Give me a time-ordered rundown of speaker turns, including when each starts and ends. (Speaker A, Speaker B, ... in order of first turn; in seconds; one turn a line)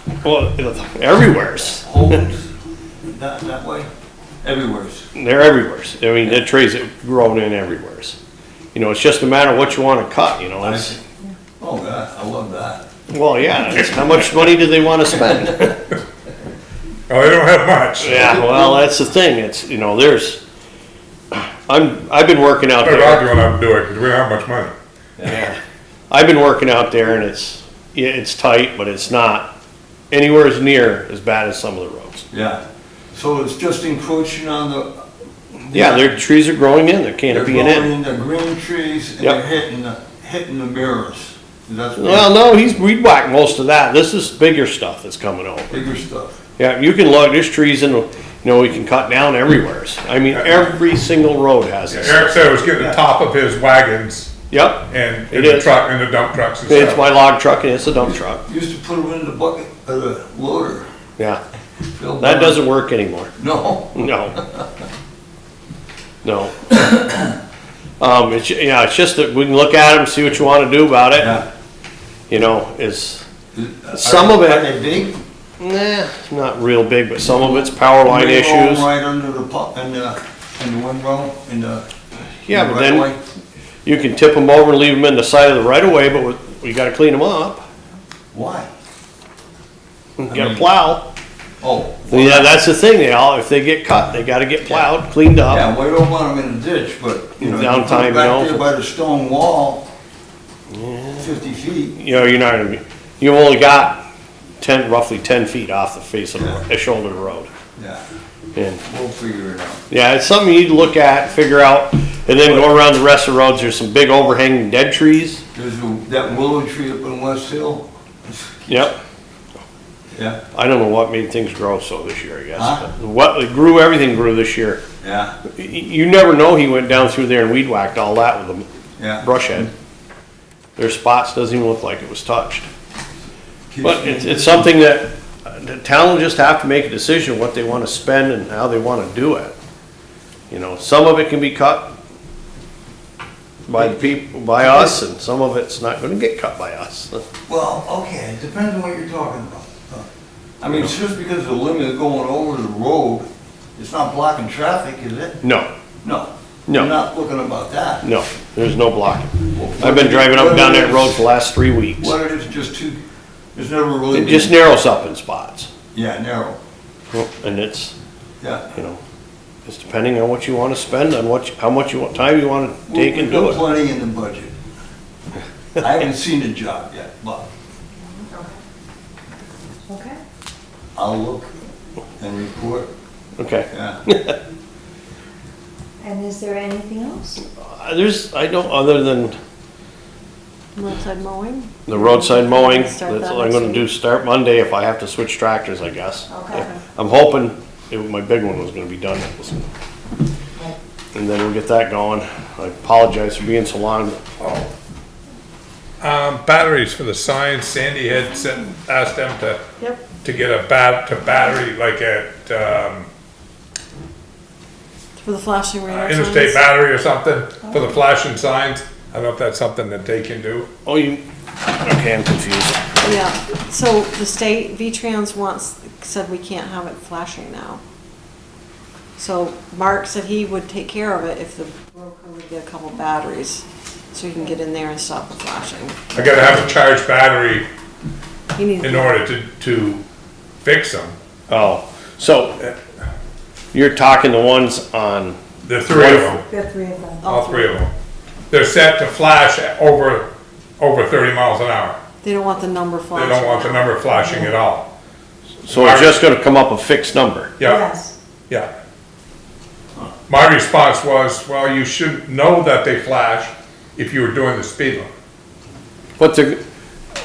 Speaker A: 0.2-2.1
Speaker B: 1.8-2.5
Speaker B: 3.0-3.9
Speaker B: 4.4-5.1
Speaker A: 5.2-8.2
Speaker A: 8.7-11.0
Speaker B: 10.6-11.1
Speaker B: 11.6-12.8
Speaker A: 13.1-15.8
Speaker C: 17.1-18.3
Speaker A: 18.0-20.4
Speaker B: 18.2-18.8
Speaker A: 21.3-23.3
Speaker C: 22.8-24.7
Speaker B: 25.2-25.4
Speaker A: 25.2-25.6
Speaker A: 26.1-29.5
Speaker A: 30.1-32.2
Speaker B: 32.3-32.6
Speaker B: 33.1-35.0
Speaker B: 35.7-36.2
Speaker A: 35.7-37.9
Speaker B: 37.3-42.3
Speaker A: 42.0-45.9
Speaker B: 45.7-46.4
Speaker A: 46.6-52.4
Speaker C: 51.9-57.0
Speaker B: 52.7-53.0
Speaker A: 54.5-55.8
Speaker A: 56.7-58.4
Speaker B: 58.1-60.9
Speaker B: 62.0-62.6
Speaker A: 62.2-63.3
Speaker B: 63.4-64.7
Speaker A: 64.0-64.4
Speaker A: 66.2-67.0
Speaker A: 68.0-71.4
Speaker B: 71.2-71.5
Speaker A: 72.3-73.3
Speaker B: 73.5-75.2
Speaker A: 73.9-74.7
Speaker A: 75.6-78.9
Speaker B: 77.3-81.8
Speaker A: 82.5-83.1
Speaker B: 82.5-83.2
Speaker A: 83.8-87.7
Speaker B: 88.3-88.7
Speaker A: 90.2-91.1
Speaker B: 90.3-90.7
Speaker B: 91.6-92.6
Speaker A: 92.1-95.7
Speaker B: 95.5-99.9
Speaker A: 97.4-98.6
Speaker A: 100.7-101.3
Speaker B: 101.2-102.0
Speaker A: 102.0-104.0
Speaker A: 104.6-107.5
Speaker B: 106.4-106.6
Speaker B: 107.8-108.0
Speaker A: 108.5-108.8
Speaker B: 108.8-109.8
Speaker A: 109.9-115.4
Speaker B: 115.5-118.7
Speaker A: 118.7-119.0
Speaker B: 120.2-120.4
Speaker A: 120.5-124.8
Speaker B: 122.5-122.9
Speaker B: 125.0-125.4
Speaker A: 125.5-128.7
Speaker B: 129.0-129.7
Speaker A: 129.2-129.7
Speaker A: 130.8-132.7
Speaker B: 133.7-134.8
Speaker A: 133.8-139.6
Speaker A: 140.5-141.9
Speaker A: 143.7-147.2
Speaker B: 143.8-144.9
Speaker B: 147.5-150.1
Speaker B: 150.6-155.4
Speaker A: 155.4-155.7
Speaker B: 156.0-158.1
Speaker A: 156.7-156.9
Speaker A: 158.0-162.2
Speaker B: 159.5-161.3
Speaker B: 162.0-163.0
Speaker B: 163.6-164.6
Speaker A: 164.1-165.7
Speaker B: 165.9-166.6
Speaker A: 167.1-167.9
Speaker B: 168.4-168.8
Speaker A: 168.8-169.0
Speaker A: 169.7-173.7
Speaker B: 172.9-174.5
Speaker B: 175.8-177.5
Speaker D: 178.1-178.6
Speaker D: 179.9-180.2
Speaker B: 181.0-181.6
Speaker B: 182.2-182.9
Speaker A: 183.4-184.4
Speaker B: 183.7-184.0
Speaker D: 186.0-187.4
Speaker A: 187.4-189.4
Speaker E: 190.8-193.9
Speaker A: 191.9-199.7
Speaker D: 196.3-196.7
Speaker E: 196.5-196.8
Speaker A: 201.1-204.2
Speaker C: 204.4-204.7
Speaker C: 206.0-209.6
Speaker C: 210.2-213.1
Speaker E: 215.2-216.6
Speaker C: 215.9-220.7
Speaker A: 220.9-222.8
Speaker E: 223.0-227.8
Speaker E: 229.2-236.0
Speaker C: 236.1-237.7
Speaker E: 238.6-239.2
Speaker C: 238.8-240.0
Speaker C: 240.6-241.2
Speaker A: 241.5-242.7
Speaker A: 243.7-245.4
Speaker C: 245.6-246.4
Speaker A: 245.9-246.4
Speaker D: 246.5-247.6
Speaker E: 247.2-247.6
Speaker C: 247.3-247.9
Speaker C: 248.5-252.0
Speaker E: 252.2-254.1
Speaker C: 253.1-254.9
Speaker D: 254.1-254.5
Speaker C: 255.6-256.2
Speaker A: 255.7-257.5
Speaker C: 257.6-257.9
Speaker D: 257.6-258.1
Speaker C: 260.3-265.1
Speaker A: 266.2-266.6